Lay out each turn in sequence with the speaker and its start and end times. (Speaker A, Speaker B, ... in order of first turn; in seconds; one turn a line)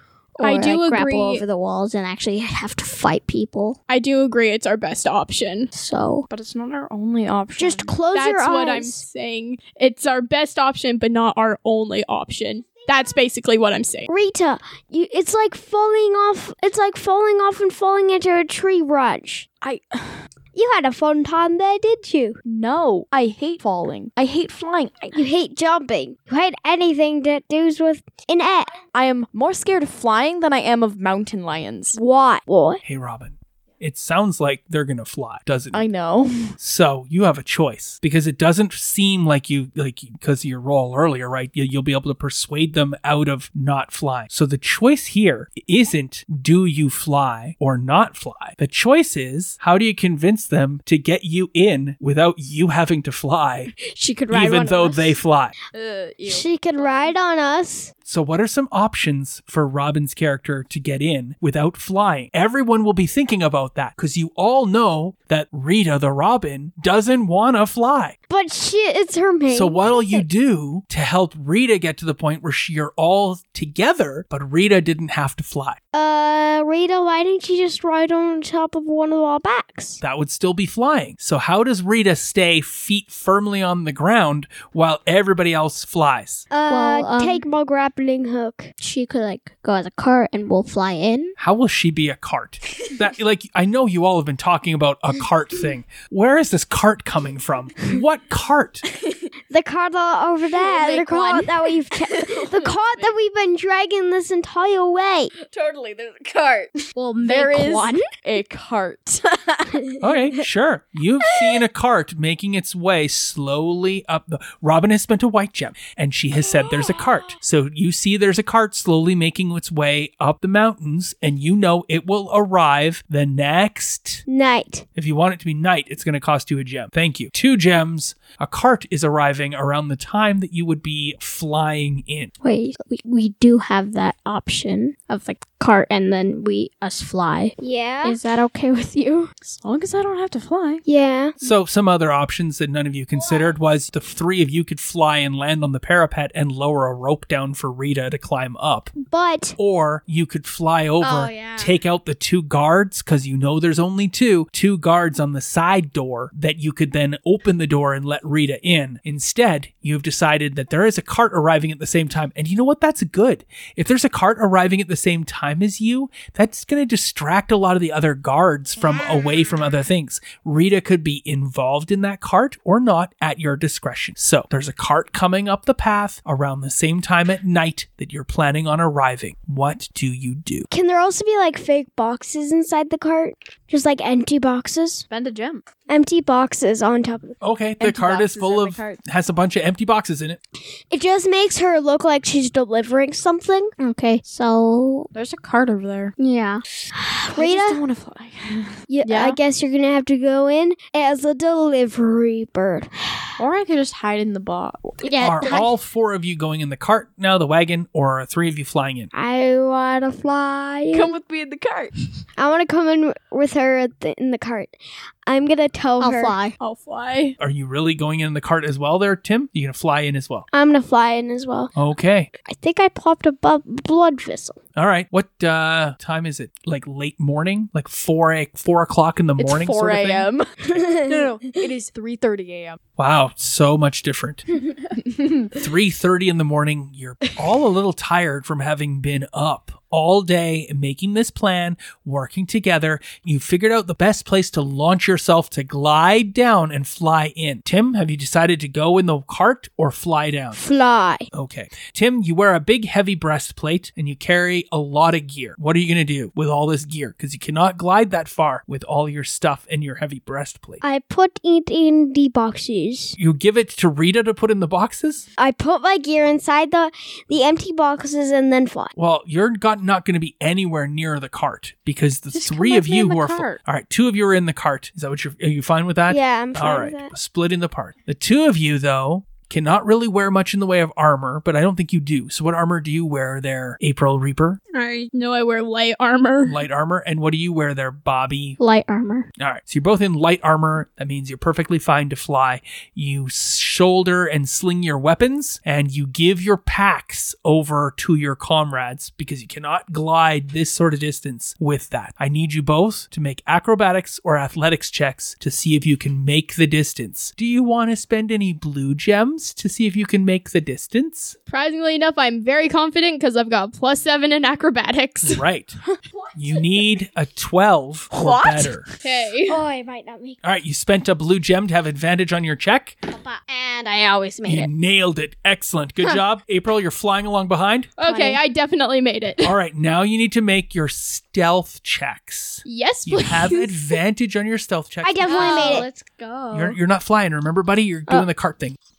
Speaker A: 0.4-3.8
Speaker B: 0.4-1.4
Speaker B: 3.9-5.7
Speaker A: 5.7-6.3
Speaker C: 6.3-7.9
Speaker D: 7.5-9.0
Speaker B: 8.1-14.1
Speaker D: 14.1-19.5
Speaker C: 19.6-20.2
Speaker D: 20.5-22.4
Speaker C: 22.4-25.2
Speaker D: 25.1-28.8
Speaker C: 28.9-32.0
Speaker D: 31.9-32.8
Speaker E: 32.8-35.9
Speaker C: 35.7-36.5
Speaker E: 36.6-53.7
Speaker A: 53.8-55.1
Speaker E: 54.3-55.5
Speaker C: 55.7-57.1
Speaker D: 56.3-57.9
Speaker E: 58.0-68.2
Speaker D: 68.3-70.2
Speaker E: 69.5-75.8
Speaker D: 75.9-80.0
Speaker E: 80.0-86.5
Speaker D: 86.5-88.7
Speaker A: 86.7-87.4
Speaker A: 88.8-91.3
Speaker E: 91.4-98.8
Speaker D: 99.5-105.3
Speaker A: 100.8-101.4
Speaker C: 100.9-101.4
Speaker C: 102.3-103.1
Speaker C: 105.4-109.8
Speaker A: 107.0-108.1
Speaker E: 110.0-124.2
Speaker D: 124.3-124.8
Speaker E: 125.0-132.3
Speaker A: 132.4-139.3
Speaker D: 137.6-138.2
Speaker C: 139.4-140.8
Speaker D: 140.8-141.3
Speaker E: 141.4-148.9
Speaker D: 149.0-149.6
Speaker E: 149.6-180.7
Speaker A: 151.0-151.7
Speaker D: 180.7-185.0
Speaker C: 185.1-185.6
Speaker D: 185.9-187.3
Speaker E: 187.4-190.4
Speaker C: 187.8-189.0
Speaker D: 190.9-193.7
Speaker A: 193.8-195.1
Speaker C: 195.1-196.1
Speaker A: 196.2-196.6
Speaker D: 196.9-197.8
Speaker C: 197.3-199.4
Speaker D: 198.9-203.3
Speaker C: 203.4-205.5
Speaker A: 205.0-205.7
Speaker E: 205.2-209.1
Speaker D: 209.1-211.1
Speaker C: 210.9-211.9
Speaker D: 212.4-214.7
Speaker D: 215.2-216.4
Speaker A: 216.0-216.5
Speaker B: 216.6-217.3
Speaker E: 217.4-220.5
Speaker D: 220.5-221.7
Speaker E: 221.7-222.3
Speaker D: 222.4-224.6
Speaker E: 224.7-230.3
Speaker C: 229.4-232.8
Speaker D: 230.7-231.2
Speaker E: 233.0-234.6
Speaker C: 235.2-235.5
Speaker E: 235.5-250.6
Speaker D: 250.5-251.3
Speaker E: 251.3-260.8
Speaker D: 260.8-263.1
Speaker E: 263.2-265.2
Speaker D: 265.4-268.9
Speaker E: 268.9-284.6
Speaker C: 272.3-273.6
Speaker D: 276.1-277.1
Speaker B: 284.7-286.6
Speaker E: 286.4-288.6
Speaker A: 288.6-289.3
Speaker E: 289.4-311.4
Speaker B: 311.5-315.4
Speaker E: 315.2-315.8
Speaker E: 316.4-318.9
Speaker C: 318.1-318.8
Speaker B: 319.0-319.6
Speaker D: 319.5-320.4
Speaker E: 320.4-323.0
Speaker A: 323.1-324.7
Speaker E: 324.4-327.9
Speaker B: 328.0-329.5
Speaker A: 328.0-328.4
Speaker E: 329.4-335.8
Speaker B: 332.6-333.7
Speaker D: 335.0-335.9
Speaker A: 335.2-336.8
Speaker E: 336.5-338.8